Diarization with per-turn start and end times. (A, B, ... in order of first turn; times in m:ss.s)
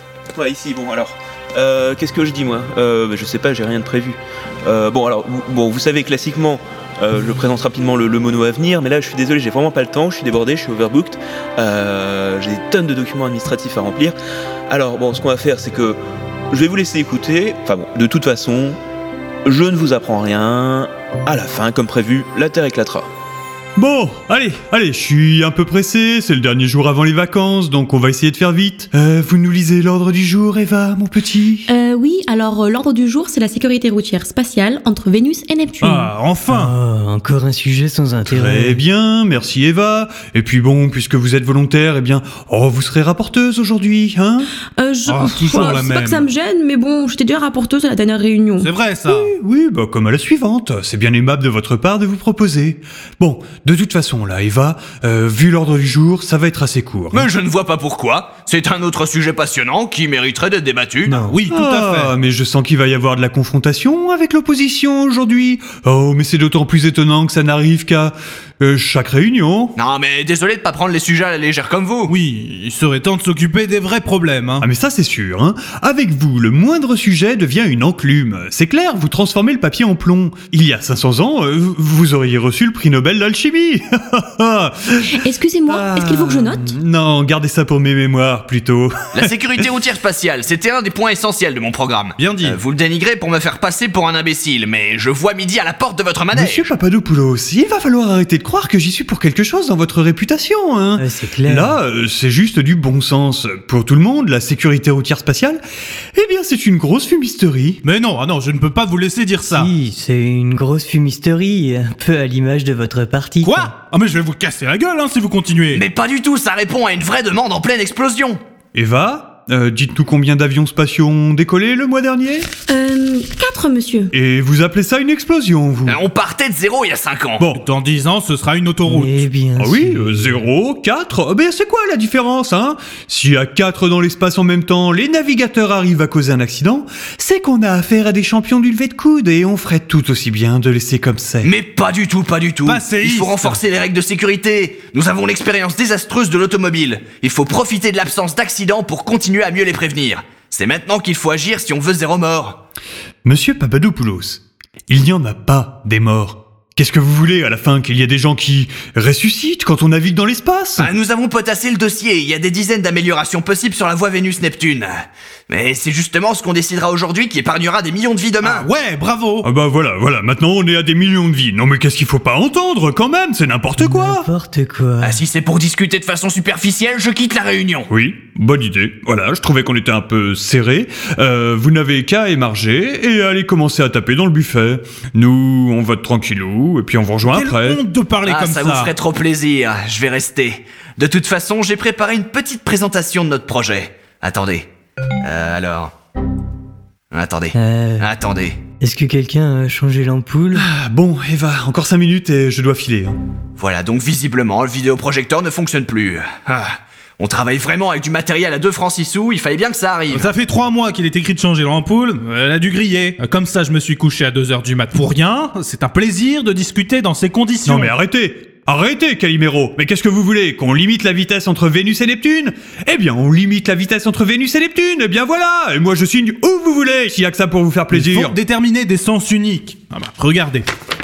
0:00.3-0:14.2 A
0:14.7-0:16.0 A
0:16.5-0:18.8 A
0:19.4-0:23.1 A
0:23.8-0:31.7 B
0:31.7-0:36.1 C
0:35.8-0:36.7 D
0:36.5-0:38.8 E
0:38.2-0:44.5 B
0:44.8-0:48.7 C
0:45.0-0:46.3 D
0:48.6-0:49.3 D
0:49.1-0:57.3 B
0:57.1-1:01.2 F
1:01.0-1:01.4 E
1:01.2-1:02.1 D
1:01.5-1:09.7 B
1:09.8-1:12.1 F
1:12.1-1:14.6 D
1:14.6-1:29.3 B
1:25.2-1:26.7 C
1:29.1-1:36.7 F
1:32.2-1:32.6 D
1:36.3-1:45.6 B
1:41.0-1:41.8 E
1:46.2-1:47.8 B
1:47.8-1:49.7 D
1:49.5-1:53.7 E
1:53.4-1:55.8 D
1:55.7-1:58.4 F
1:58.7-2:02.5 B
2:02.7-2:04.1 C
2:04.1-2:06.0 B
2:05.8-2:07.4 F
2:07.5-2:09.2 D
2:08.8-2:10.4 E
2:09.6-2:21.5 B
2:21.4-2:32.6 F
2:22.6-2:23.5 D
2:33.2-2:40.9 B
2:40.8-2:44.9 F
2:45.5-2:48.7 F
2:48.4-2:49.4 D
2:49.4-2:54.3 B
2:53.8-2:55.2 E
2:55.0-2:57.9 F
2:57.9-3:07.8 B
3:07.3-3:08.9 D
3:08.2-3:14.7 F
3:15.2-3:15.9 F
3:17.1-3:18.6 F
3:17.5-3:18.1 E
3:18.8-3:20.6 E
3:20.5-3:23.2 B
3:23.6-3:30.3 F
3:30.1-3:37.9 D
3:37.6-3:48.4 B
3:47.9-3:50.7 D